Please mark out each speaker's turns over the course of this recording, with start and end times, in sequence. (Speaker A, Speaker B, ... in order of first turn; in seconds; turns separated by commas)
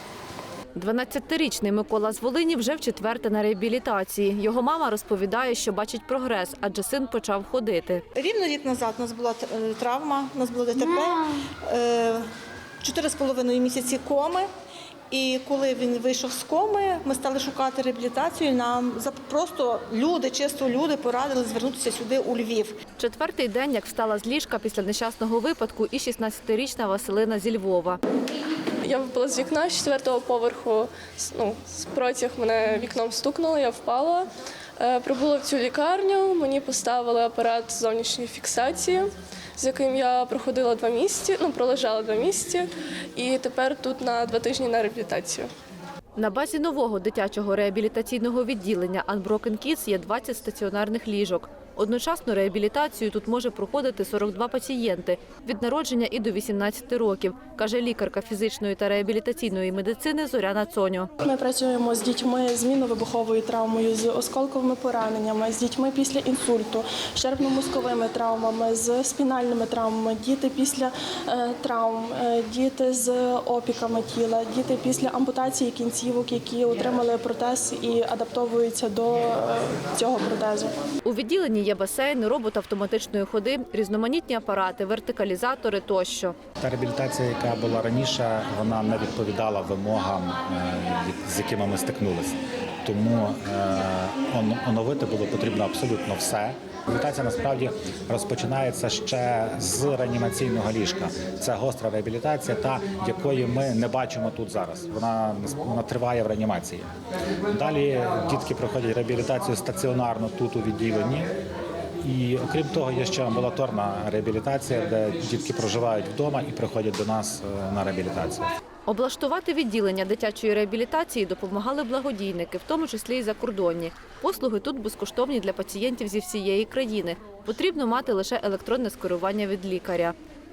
Speaker A: 0.7-8.0, Speaker B: 8.2-12.3, Speaker C: 10.8-11.4, Speaker B: 12.8-14.5, Speaker B: 15.1-22.8, Speaker A: 23.0-28.0, Speaker D: 28.8-34.3, Speaker D: 34.8-45.5, Speaker A: 46.2-61.1, Speaker C: 61.2-80.8, Speaker A: 81.0-86.4, Speaker E: 86.6-106.9, Speaker E: 107.5-111.3, Speaker E: 112.0-118.5, Speaker A: 118.9-130.1